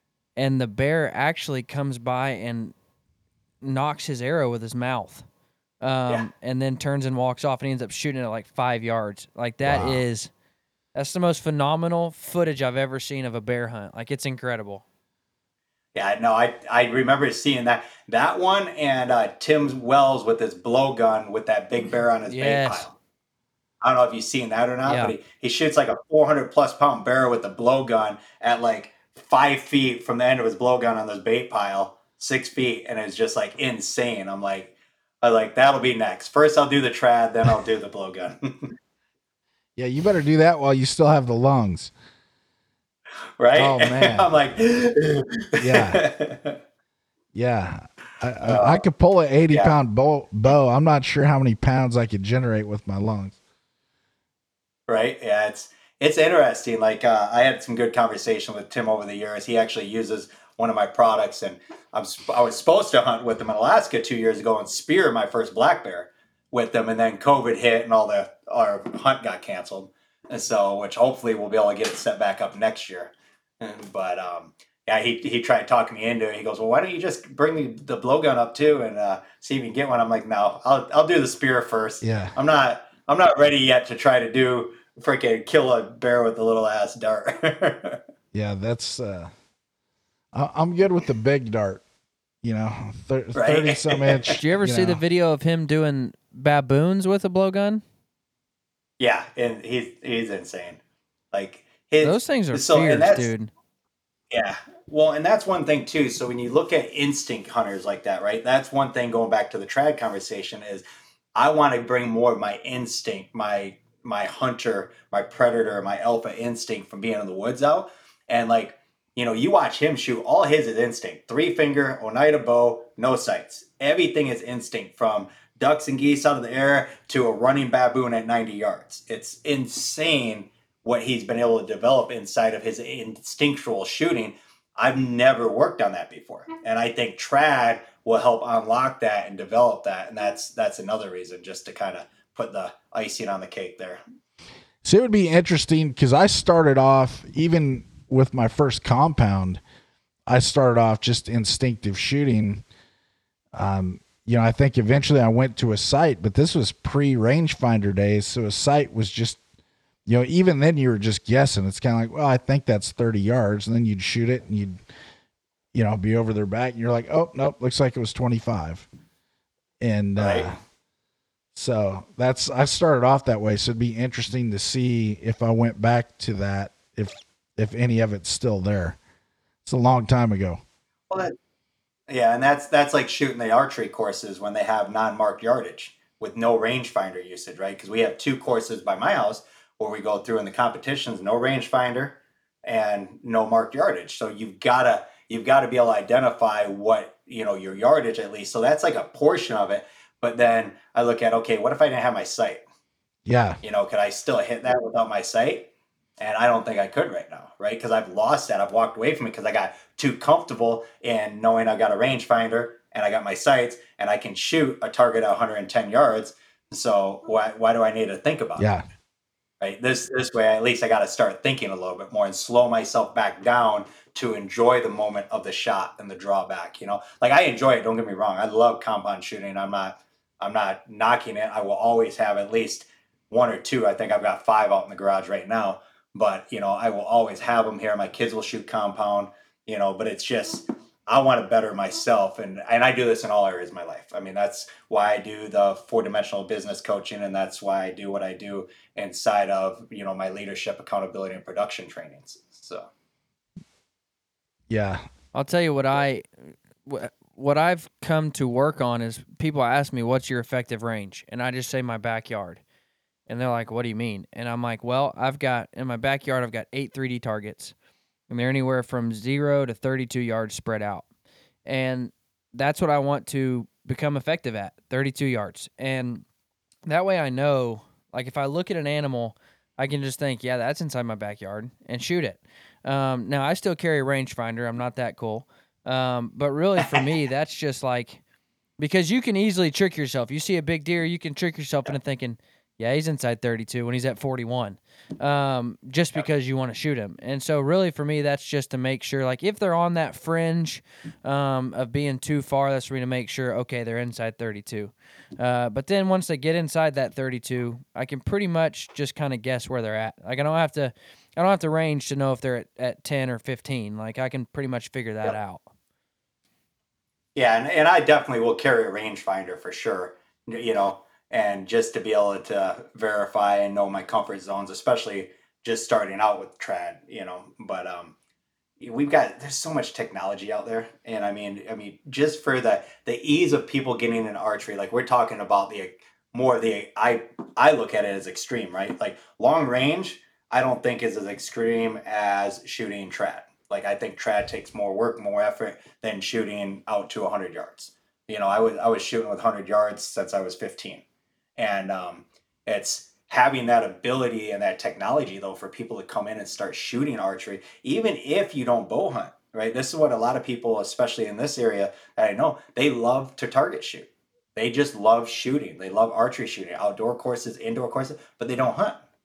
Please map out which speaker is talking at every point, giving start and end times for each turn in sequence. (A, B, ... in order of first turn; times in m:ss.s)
0:00.4-0:02.7 A
0:03.6-0:05.3 A
0:05.8-0:10.3 A
0:09.6-0:10.0 B
0:11.0-0:14.8 A
0:16.0-0:23.0 C
0:22.3-0:22.9 A
0:23.8-0:38.8 C
0:24.8-0:25.2 A
0:39.8-0:41.9 B
0:43.4-0:46.6 C
0:43.6-0:44.3 B
0:45.6-0:46.0 B
0:47.3-0:53.4 B
0:48.4-0:48.8 C
0:49.5-0:49.8 C
0:54.9-1:28.0 C
1:22.0-1:22.3 B
1:28.3-1:29.3 B
1:30.3-1:31.8 B
1:32.4-1:35.0 B
1:33.4-1:34.4 C
1:34.3-1:37.8 A
1:39.0-1:40.8 C
1:41.3-1:43.3 C
1:42.0-1:43.5 A
1:44.3-1:50.8 C
1:51.4-2:24.0 C
2:24.8-2:29.6 B
2:30.3-2:32.6 B
2:33.5-2:39.4 B
2:40.1-2:44.8 B
2:45.7-2:48.9 B
2:49.8-2:50.6 B
2:50.2-2:50.5 C
2:51.6-2:59.0 B
2:59.6-3:00.6 B
3:01.1-3:01.4 C
3:02.1-3:22.6 C
3:23.2-3:23.6 B
3:23.6-3:25.7 C
3:26.2-3:38.7 C
3:38.6-3:38.8 B
3:39.6-4:12.9 C
4:14.7-4:15.0 B
4:15.3-4:22.6 A
4:23.3-4:27.8 A
4:28.3-4:31.0 A
4:31.7-4:36.2 A
4:36.9-4:48.2 A
4:48.8-5:15.7 A
5:17.4-5:28.2 C
5:28.8-5:51.0 C
5:51.6-6:09.0 C